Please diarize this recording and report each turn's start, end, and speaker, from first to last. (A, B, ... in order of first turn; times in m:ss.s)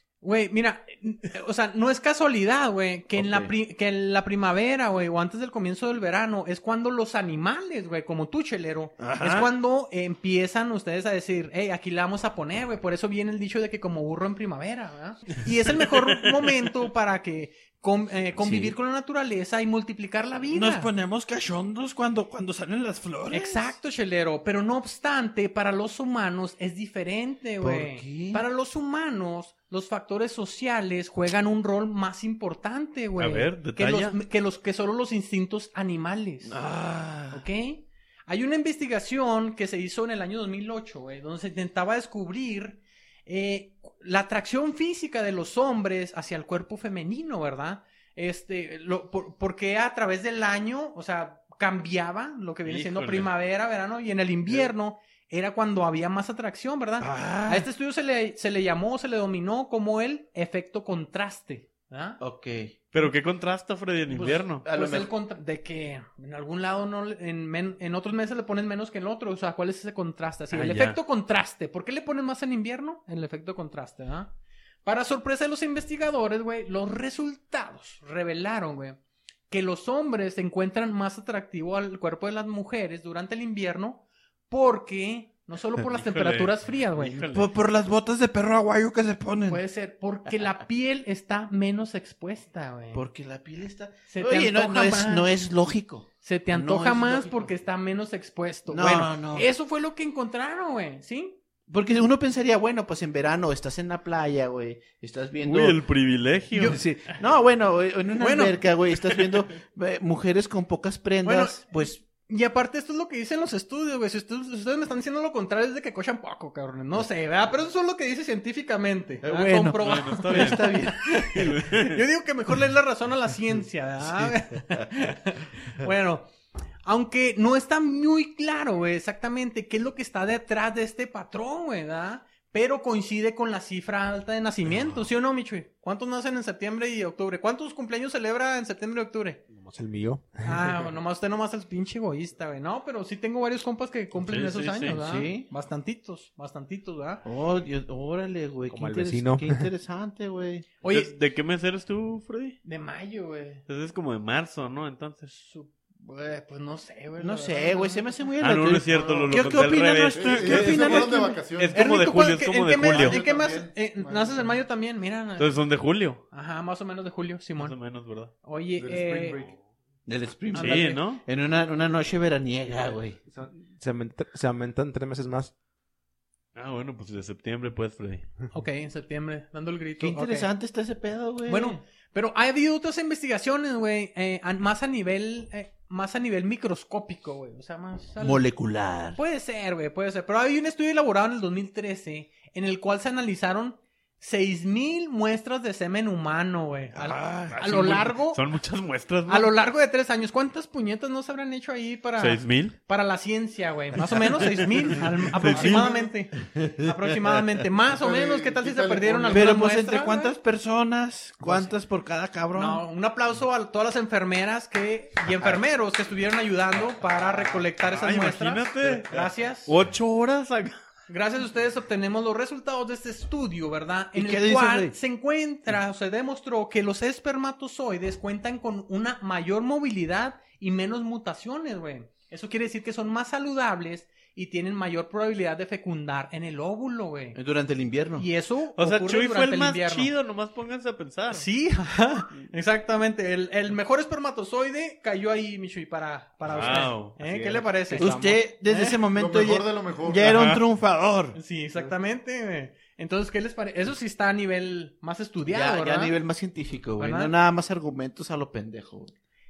0:00.2-0:20.9 A
0:03.2-0:03.5 B
0:09.0-0:09.5 C
0:18.4-0:18.7 B
0:20.5-0:23.7 C
0:23.3-0:36.6 A
0:27.6-0:28.4 B
0:33.2-0:34.2 D
0:36.5-0:37.4 C
0:37.3-1:02.2 A
0:52.6-0:53.3 D
0:57.0-0:57.6 C
1:02.2-1:02.7 B
1:02.9-1:04.6 D
1:04.1-1:05.1 B
1:04.7-1:14.3 A
1:10.5-1:11.0 D
1:14.8-1:19.0 A
1:19.5-1:27.2 A
1:25.9-1:27.5 D
1:27.3-1:29.6 C
1:29.5-1:33.0 A
1:32.9-1:37.5 B
1:34.1-1:35.3 A
1:36.2-1:41.4 A
1:38.7-1:39.5 B
1:41.7-1:45.8 B
1:45.4-1:46.8 D
1:46.5-1:46.8 A
1:46.6-1:52.0 B
1:48.2-1:48.6 A
1:51.2-2:06.3 A
1:59.2-2:01.1 B
1:59.7-2:02.0 D
2:06.8-2:19.4 A
2:19.5-2:20.7 E
2:20.4-2:27.2 A
2:24.2-2:25.0 D
2:25.0-2:25.5 B
2:27.2-2:30.7 B
2:28.7-2:29.7 E
2:30.8-2:31.1 A
2:30.9-2:32.6 D
2:32.6-2:33.6 A
2:33.7-2:35.3 D
2:35.4-2:38.3 A
2:37.2-2:41.2 B
2:38.4-2:43.2 D
2:40.1-2:41.2 C
2:40.1-2:41.9 F
2:41.7-2:45.6 A
2:42.7-2:44.6 F
2:45.4-2:46.2 D
2:46.3-2:47.8 A
2:47.6-2:48.3 D
2:48.4-2:49.4 A
2:48.8-2:49.6 F
2:50.0-2:53.2 B
2:50.5-2:51.0 A
2:50.5-2:51.2 D
2:53.3-2:55.5 E
2:56.5-2:58.3 D
2:58.5-3:00.5 A
3:00.0-3:01.8 B
3:01.4-3:08.4 A
3:08.2-3:09.2 B
3:09.2-3:18.4 A
3:17.0-3:17.6 C
3:17.5-3:19.5 D
3:19.3-3:30.3 A
3:22.2-3:22.8 D
3:24.4-3:26.1 D
3:28.0-3:29.6 F
3:29.3-3:32.5 B
3:29.9-3:32.7 C
3:32.5-3:39.7 A
3:37.9-3:40.8 D
3:41.1-3:57.4 A
3:44.1-3:44.9 B
3:57.3-3:58.3 B
3:58.2-4:00.1 A
3:58.8-4:01.5 D
4:01.3-4:09.0 A
4:06.4-4:07.2 D
4:07.2-4:08.3 E
4:08.0-4:11.4 B
4:09.0-4:10.6 F
4:10.3-4:10.6 D
4:11.3-4:16.1 A
4:15.5-4:19.1 B
4:17.0-4:17.3 A